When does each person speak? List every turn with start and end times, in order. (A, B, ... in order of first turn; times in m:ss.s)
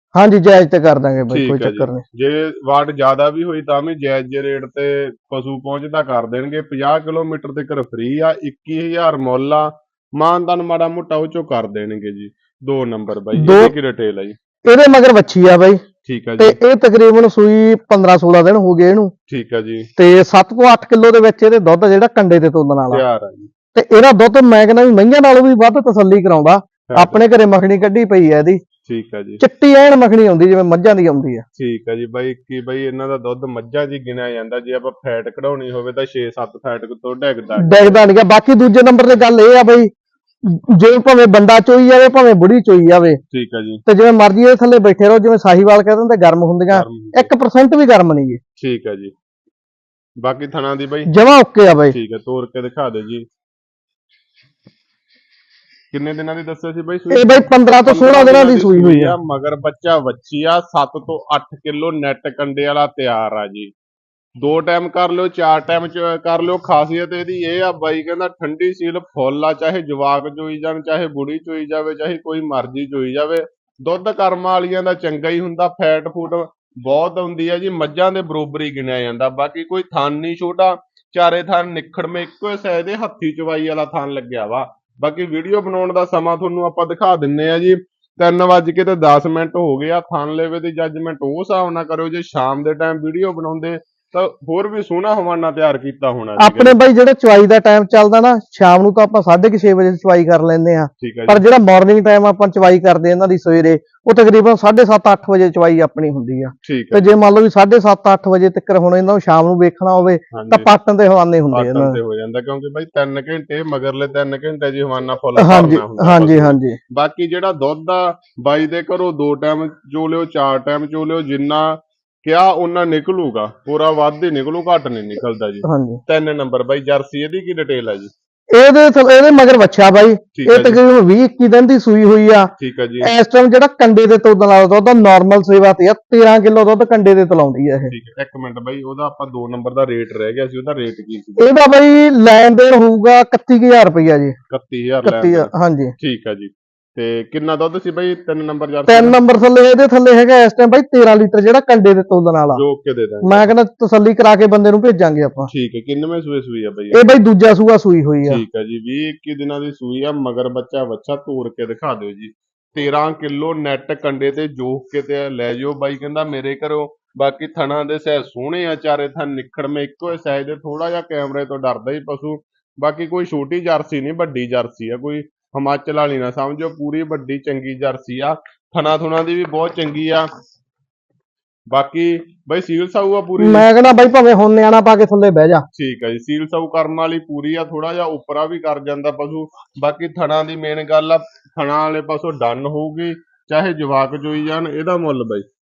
0:00.2-0:02.0 A
0:01.3-0:14.4 B
0:13.3-0:13.7 A
0:14.6-0:15.8 A
0:16.0-0:16.6 B
0:16.4-0:19.1 A
0:19.3-0:19.9 B
0:20.0-0:23.0 A
0:22.9-0:23.5 B
0:23.8-0:28.6 A
0:26.9-0:27.2 B
0:28.8-0:29.4 B
0:29.4-0:31.4 A
0:31.6-0:38.0 B
0:37.6-0:39.9 A
0:40.4-0:43.2 A
0:43.3-0:43.8 B
0:43.9-0:48.4 A
0:46.7-0:47.3 B
0:48.6-0:49.1 B
0:50.2-0:51.1 B
0:51.1-0:52.0 A
0:51.9-0:53.3 B
0:55.9-1:03.7 B
0:57.1-0:59.2 A
1:04.4-1:36.8 B
1:36.4-1:52.0 A
1:41.0-1:41.4 B
1:46.6-1:47.1 B
1:50.3-1:50.7 B
1:51.5-2:08.1 B
1:55.4-1:56.8 A
2:05.6-2:06.0 A
2:08.5-2:12.5 A
2:10.4-2:10.8 B
2:12.6-2:13.1 B
2:13.0-2:17.9 A
2:17.9-2:21.4 B
2:21.4-2:24.4 A
2:24.5-2:29.2 B
2:25.0-2:25.9 A
2:28.9-2:32.6 A
2:32.5-2:33.5 B
2:33.2-2:35.5 A
2:35.5-2:37.0 B
2:36.9-2:38.4 A
2:38.2-3:00.3 B
3:01.7-3:03.7 B
3:03.4-3:05.7 A
3:05.7-3:15.4 B